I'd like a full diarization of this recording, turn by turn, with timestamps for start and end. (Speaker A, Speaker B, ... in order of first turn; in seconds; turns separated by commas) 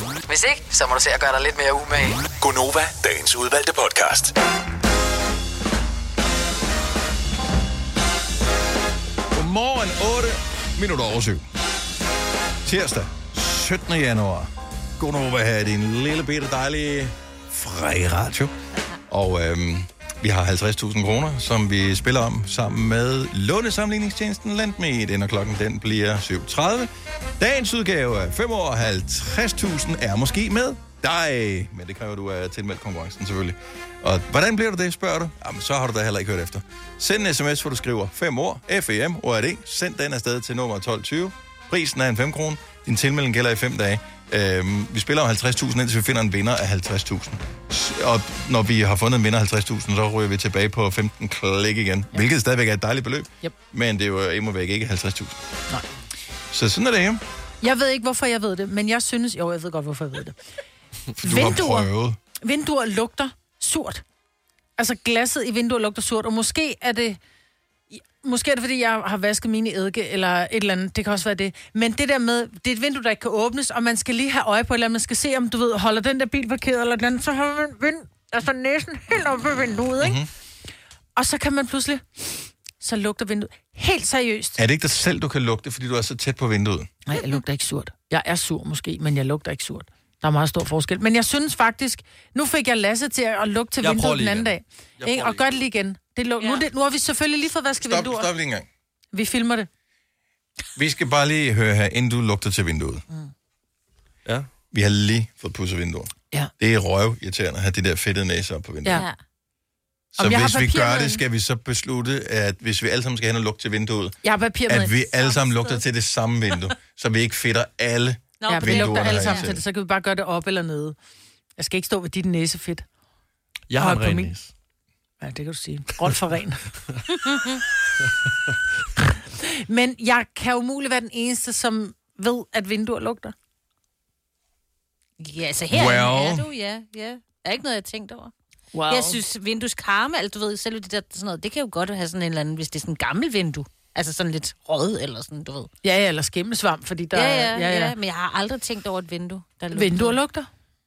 Speaker A: 0.3-2.3, Speaker B: 2.4-4.3, Speaker C: 9.3-11.4, Speaker C: 12.6-18.5, Speaker C: 19.1-55.4, Speaker C: 56.5-57.2, Speaker D: 57.6-60.4, Speaker C: 61.2-62.2, Speaker D: 61.2-61.9, Speaker D: 62.4-64.0, Speaker D: 64.8-67.2, Speaker D: 67.9-80.2, Speaker C: 80.0-80.3, Speaker D: 81.2-84.6, Speaker C: 84.6-86.9, Speaker D: 87.0-98.3, Speaker E: 93.8-95.5, Speaker C: 97.8-98.7, Speaker D: 99.1-99.7, Speaker C: 100.8-103.0, Speaker C: 104.7-109.0, Speaker C: 110.1-114.2, Speaker D: 110.2-111.2, Speaker D: 114.2-115.3, Speaker C: 114.7-119.6, Speaker F: 118.4-119.5, Speaker D: 118.5-121.0, Speaker D: 121.6-122.8, Speaker E: 123.7-124.5, Speaker D: 123.8-124.3, Speaker D: 125.2-126.6, Speaker F: 127.3-127.6, Speaker D: 129.4-133.3, Speaker F: 135.2-138.3, Speaker C: 135.7-136.5, Speaker D: 138.7-139.2, Speaker F: 138.9-145.7, Speaker D: 145.8-147.9, Speaker F: 147.1-150.2, Speaker D: 149.7-150.5